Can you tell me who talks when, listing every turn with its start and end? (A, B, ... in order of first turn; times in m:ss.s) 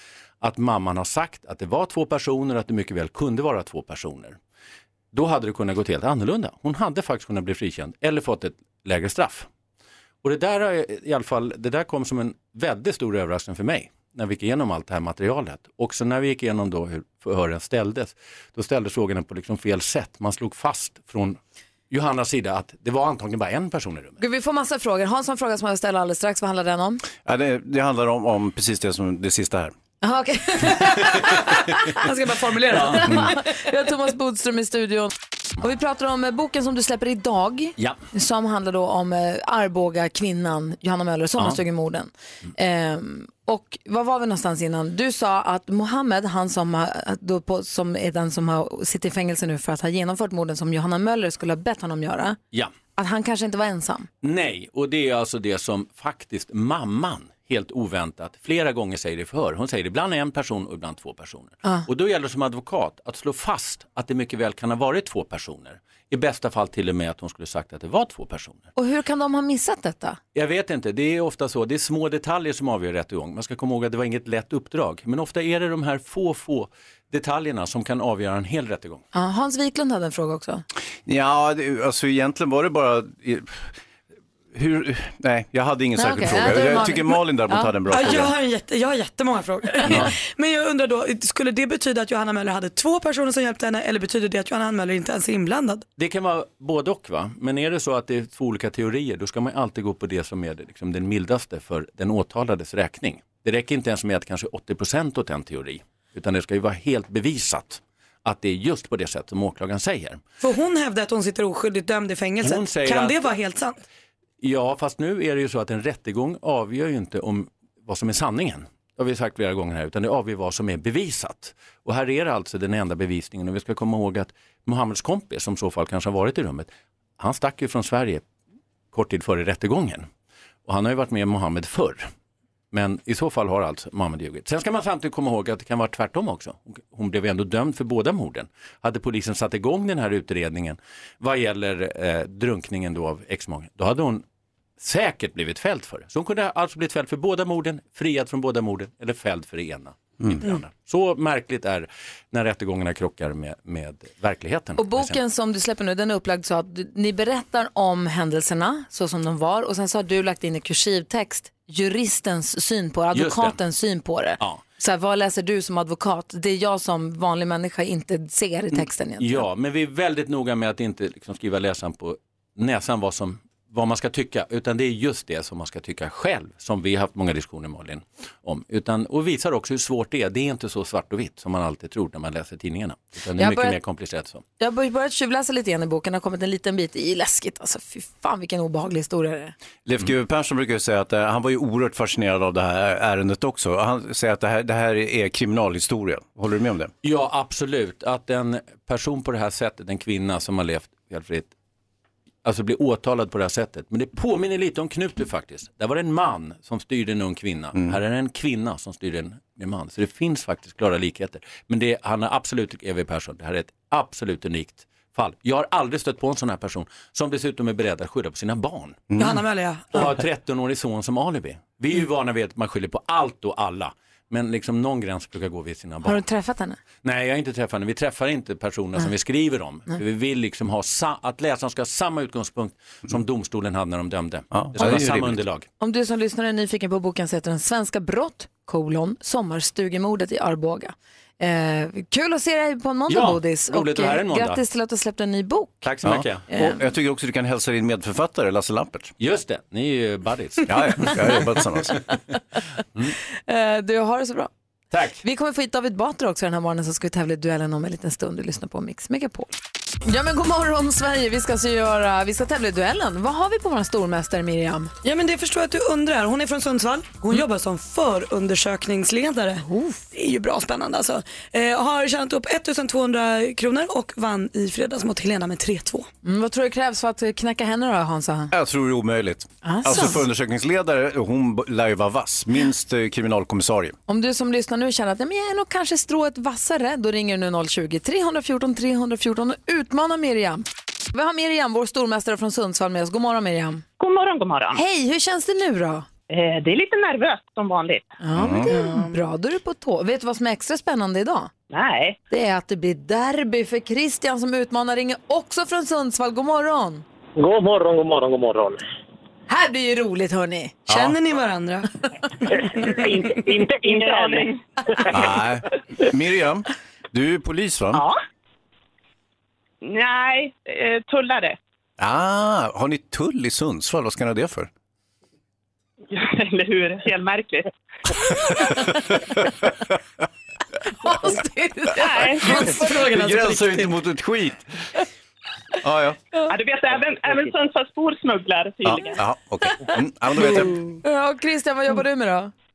0:00.4-0:04.4 A
0:05.1-0:09.5 A
0:10.2-0:21.4 A
0:21.9-0:24.2 A
0:24.2-0:27.0 B
0:27.2-0:29.7 C
0:30.0-0:31.9 B
0:32.0-0:33.3 D
0:32.8-0:52.4 B
0:53.0-0:54.1 B
0:54.2-1:08.7 A
1:08.8-1:10.2 B
1:10.3-1:19.0 A
1:19.1-1:20.6 B
1:21.0-1:23.7 C
1:24.5-1:28.3 C
1:26.0-1:28.1 B
1:27.9-1:35.8 D
1:36.0-1:50.2 A
1:50.4-1:53.8 D
1:52.4-1:53.2 A
1:54.4-2:08.2 A
2:08.9-2:10.1 A
2:10.6-2:12.1 A
2:12.7-2:24.2 A
2:24.8-2:35.2 A
2:34.8-2:49.4 B
2:43.1-2:43.6 A
2:49.2-3:04.4 A
3:03.4-3:03.8 B
3:04.6-3:09.5 B
3:09.8-3:16.9 C
3:17.0-3:21.5 A
3:22.4-3:39.0 A
3:39.1-3:39.4 C
3:39.2-3:40.1 D
3:39.9-3:46.2 A
3:46.0-3:46.8 B
3:47.0-3:55.7 A
3:54.5-3:55.4 C
3:55.8-4:05.9 B
4:03.1-4:04.6 A
4:05.8-4:06.5 A
4:06.0-4:09.1 C
4:06.5-4:06.8 B
4:09.2-4:11.1 A
4:10.6-4:12.0 C
4:13.5-4:14.5 B
4:14.9-4:15.2 A
4:15.2-4:19.5 B
4:20.0-4:24.9 B
4:25.0-4:36.1 D
4:29.6-4:30.0 B
4:36.2-4:38.5 B
4:38.5-4:44.0 C
4:39.6-4:40.2 B
4:44.1-4:53.8 B
4:54.0-4:54.8 E
4:54.7-4:56.1 B
4:56.3-4:58.1 E
4:58.2-5:01.5 B
4:58.4-4:58.7 C
4:58.7-4:59.1 D
5:01.7-5:02.2 E
5:02.3-5:07.0 B
5:07.4-5:08.8 F
5:09.5-5:10.8 B
5:10.9-5:11.9 D
5:10.9-5:11.1 C
5:12.7-5:14.5 F
5:13.8-5:14.6 E
5:15.1-5:18.0 C
5:19.8-5:21.6 E
5:22.0-5:24.7 C
5:26.1-5:27.7 E
5:31.0-5:32.6 B
5:32.0-5:32.5 E
5:32.3-5:33.9 D
5:32.6-5:34.7 C
5:35.8-5:36.2 C
5:36.5-5:39.2 E
5:38.8-5:40.8 C
5:40.4-5:42.5 B